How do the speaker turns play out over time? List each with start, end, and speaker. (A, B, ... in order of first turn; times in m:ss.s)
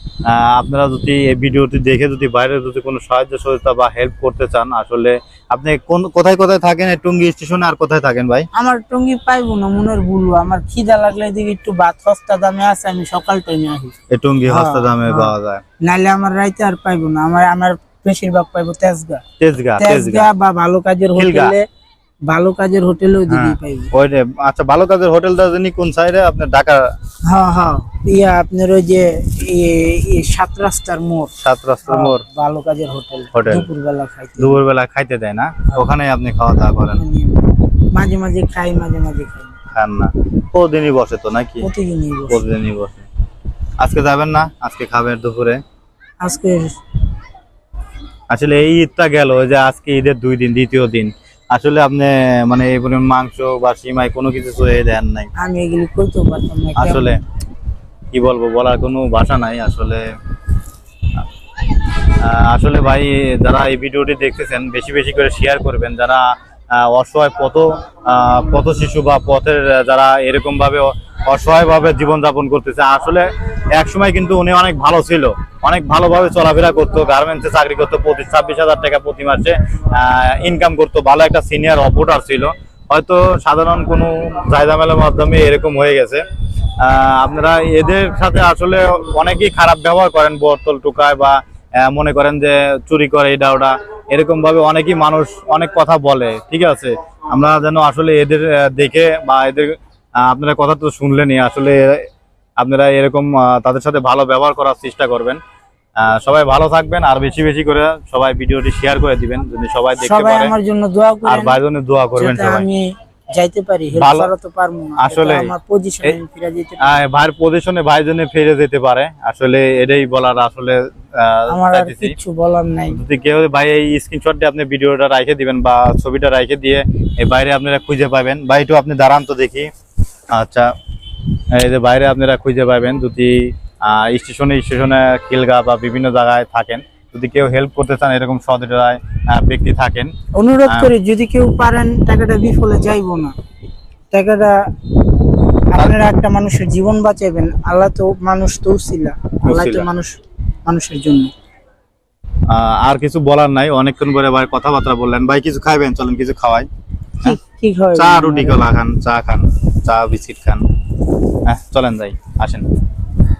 0:00.2-0:08.5 A
0:08.5-0:13.9 B
0:14.1-0:15.6 A
0:14.5-0:19.2 B
0:19.4-0:20.3 A
0:19.8-0:21.6 B
0:21.2-0:21.5 A
0:22.3-0:23.9 B
0:23.3-0:26.9 A
0:27.2-0:31.3 B
0:31.4-0:32.2 A
0:31.9-0:34.6 B
0:33.3-0:33.7 A
0:34.4-0:37.0 A
0:36.9-0:39.5 B
0:39.7-0:41.7 A
0:41.6-0:42.4 B
0:42.3-0:43.0 A
0:43.8-0:45.6 A
0:46.2-0:46.8 B
0:48.3-0:55.3 A
0:55.4-0:57.2 B
0:56.8-0:57.2 A
0:58.1-1:00.0 A
1:02.2-1:26.2 A
1:26.8-1:42.0 A
1:42.6-1:45.4 A
1:46.0-1:50.5 A
1:50.0-1:51.6 B
1:51.2-1:52.6 A
1:52.2-1:57.0 B
1:53.9-1:54.3 A
1:55.0-1:55.5 A
1:56.8-2:02.1 A
2:01.5-2:03.0 B
2:02.9-2:09.7 A
2:10.3-2:10.7 A
2:11.5-2:20.1 A
2:20.4-2:23.3 B
2:24.1-2:24.6 B
2:25.7-2:31.3 B
2:29.4-2:29.9 A
2:32.5-2:36.7 A
2:37.2-2:38.6 B
2:37.9-2:40.6 A
2:41.4-2:42.6 A